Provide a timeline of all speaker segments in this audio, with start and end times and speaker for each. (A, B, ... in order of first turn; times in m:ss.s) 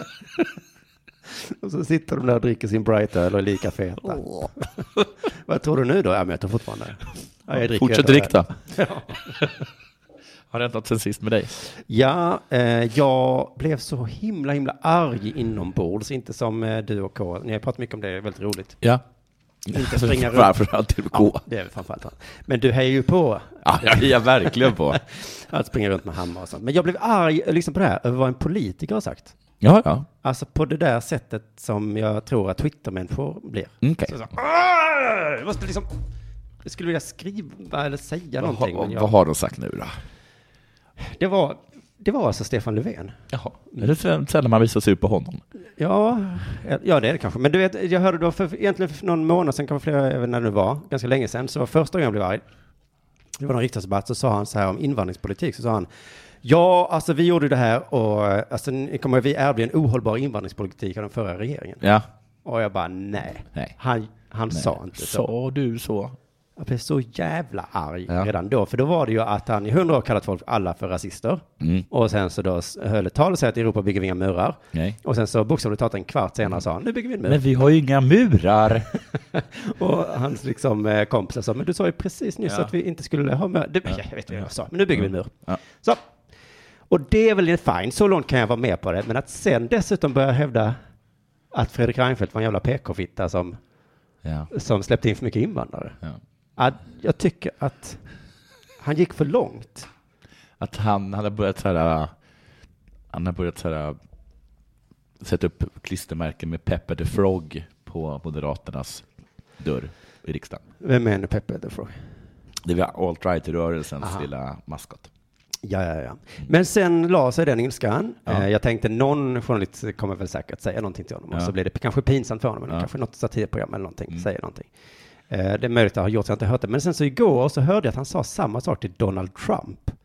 0:01.4-0:04.6 A
0:04.1-0:04.5 B
0:05.4-0:09.4 A
0:07.5-0:08.5 B
0:10.5-0:11.6 B
0:11.7-0:18.8 A
0:19.6-0:21.4 B
0:19.7-0:20.6 A
0:21.1-0:29.3 A
0:23.6-0:25.0 B
0:29.6-0:30.1 B
0:30.2-0:35.9 A
0:33.8-0:34.1 B
0:36.6-0:39.1 A
0:38.4-0:40.0 B
0:41.0-0:43.2 A
0:43.3-0:45.4 B
0:45.8-0:52.4 A
0:53.4-0:55.9 A
0:56.4-1:01.8 A
1:01.8-1:02.1 B
1:02.4-1:05.3 A
1:04.5-1:06.2 B
1:06.6-1:17.4 A
1:11.6-1:11.9 B
1:14.7-1:15.0 B
1:17.2-1:18.9 B
1:19.3-1:26.0 A
1:25.0-1:25.6 B
1:26.9-1:30.8 A
1:31.5-1:33.6 A
1:34.2-1:34.5 B
1:34.5-1:36.0 A
1:36.6-1:38.0 A
1:38.8-1:39.9 A
1:40.6-1:42.1 B
1:43.1-1:44.0 B
1:45.2-1:49.0 B
1:49.6-1:50.6 B
1:50.8-1:52.0 A
1:52.6-1:55.1 B
1:55.6-2:04.7 A
2:05.3-2:10.0 A